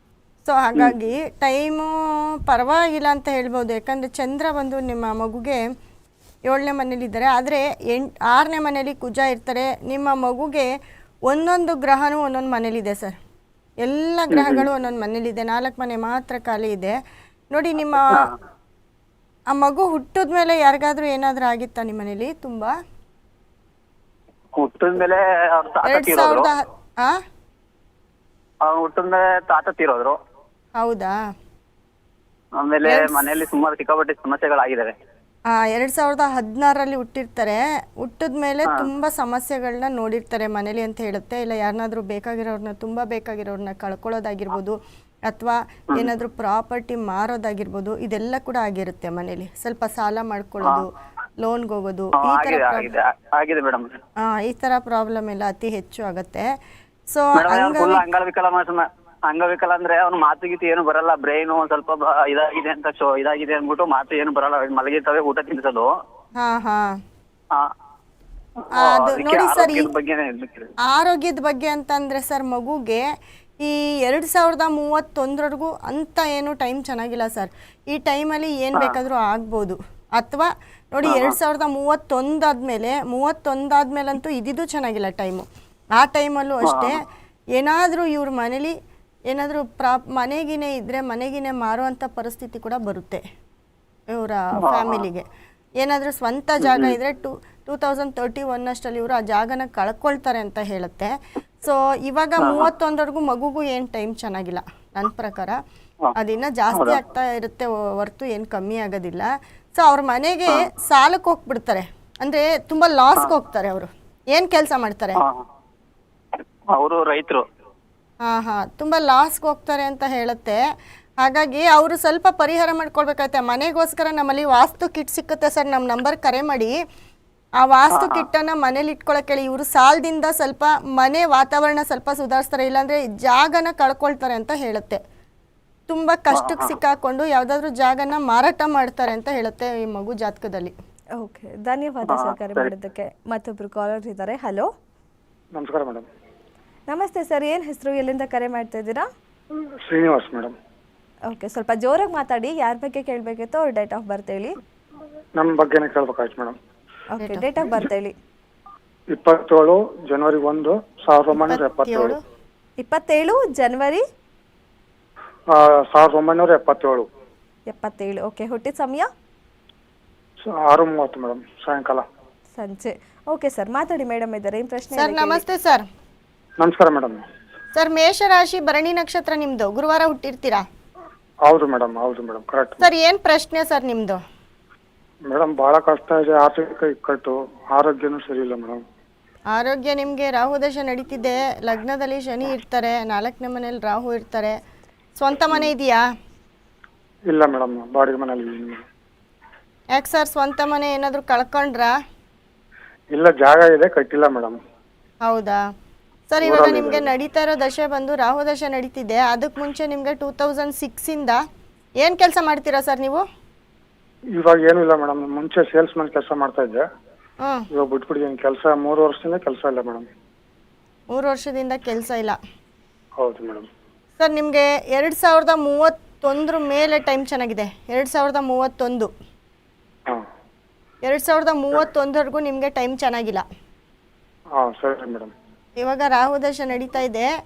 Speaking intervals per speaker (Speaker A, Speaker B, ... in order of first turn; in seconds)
Speaker A: 0.5-5.6, 6.5-10.7, 11.3-13.2, 13.8-17.0, 17.5-18.3, 19.5-22.8, 25.8-27.2, 30.8-31.2, 32.9-33.3, 35.5-53.0, 54.2-56.5, 57.1-58.0, 66.4-67.0, 68.8-69.9, 70.8-73.1, 73.6-87.0, 87.5-88.8, 89.3-93.2, 94.1-95.3, 95.8-105.6, 106.1-115.2, 118.2-120.6, 121.2-126.8, 127.6-135.0, 135.9-140.7, 157.2-157.5, 161.3-162.2, 174.9-175.8, 177.8-180.6, 182.8-184.2, 189.5-194.6, 195.2-196.0, 199.9-201.9, 205.2-205.6, 206.3-211.4, 212.0-213.2, 217.4-217.7, 221.1-222.4, 224.2-229.1, 231.1-233.4, 235.8-237.3
Speaker B: 14.3-14.7, 18.1-18.3, 24.6-26.5, 28.6-30.2, 32.6-35.0, 52.2-54.0, 57.4-65.9, 68.6-70.7, 81.0-81.4, 86.6-87.0, 94.6-95.0, 96.6-97.0, 102.4-102.7, 106.7-107.0, 115.2-115.5, 116.7-117.4, 127.9-128.3, 136.3-136.8, 142.1-142.7
Speaker C: 141.2-144.7, 146.9-149.1, 151.3-154.6, 157.1-158.1, 162.8-164.0, 167.7-169.1, 172.6-175.4
Speaker D: 145.5-146.1, 149.8-150.5, 155.4-156.6, 159.1-162.2, 165.5-167.1, 170.4-172.1, 176.6-177.2, 181.5-182.9, 185.3-188.8, 197.3-198.8, 203.1-204.6, 206.4-207.1, 214.4-216.8, 217.7-220.1, 223.2-223.7, 234.6-235.3